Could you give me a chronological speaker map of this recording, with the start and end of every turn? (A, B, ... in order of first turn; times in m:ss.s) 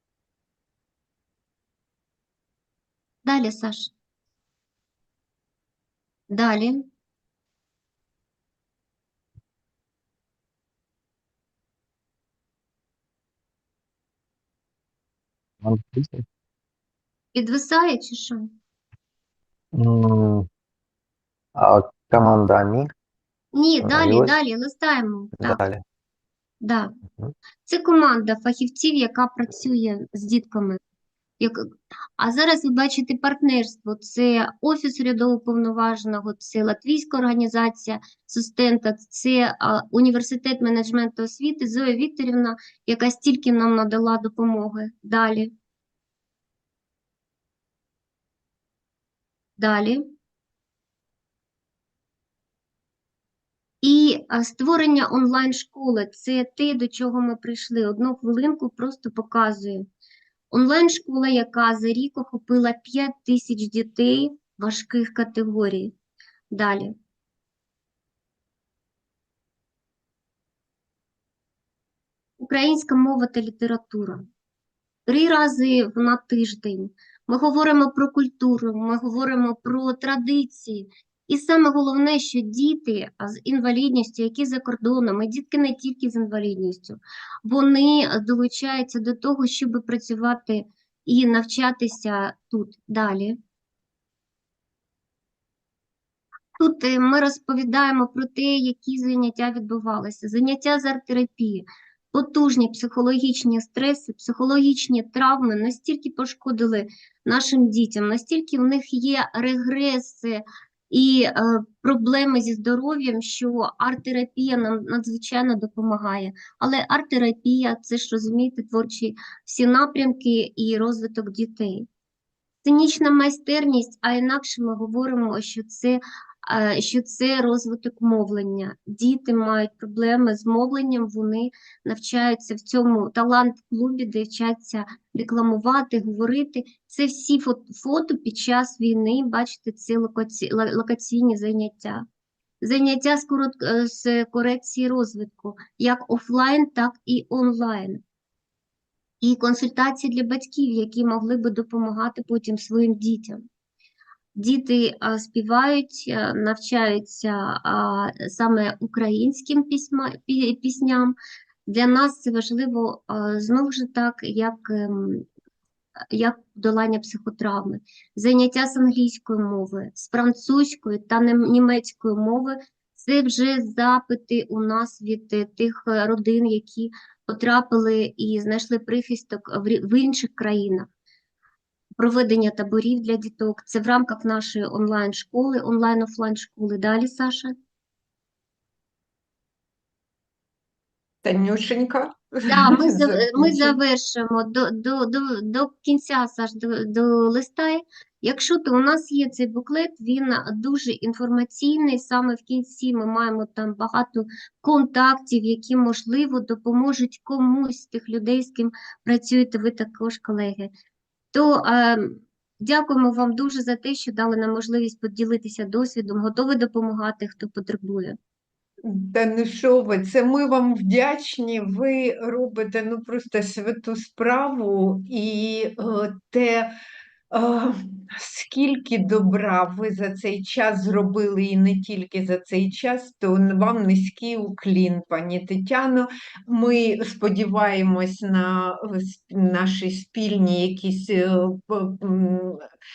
0:03.2-0:03.9 A
0:06.3-0:06.8 A
0:15.6-0:16.2 B
0:17.3-0:18.5 A
0:19.7-0:20.5 B
0:21.6-0:22.9 B
0:23.5-0:25.6 A
0:23.8-0:24.4 B
0:25.3-0:25.8 B
0:26.6-0:26.9 A
0:27.6-0:30.8 A
0:32.2-0:45.5 A
0:49.6-0:50.0 A
0:53.8-0:59.9 A
1:00.5-1:05.9 A
1:06.5-1:06.9 A
1:12.4-1:14.2 A
1:15.1-1:33.4 A
1:36.6-2:01.9 A
2:02.6-2:22.0 A
2:22.6-2:28.0 A
2:29.2-2:33.4 A
2:34.4-2:41.2 A
2:41.7-2:45.3 A
2:46.1-3:00.9 A
3:02.0-3:07.5 A
3:11.2-3:13.8 C
3:12.5-3:30.7 A
3:31.3-3:38.2 A
3:38.8-3:46.7 C
3:47.3-4:02.6 C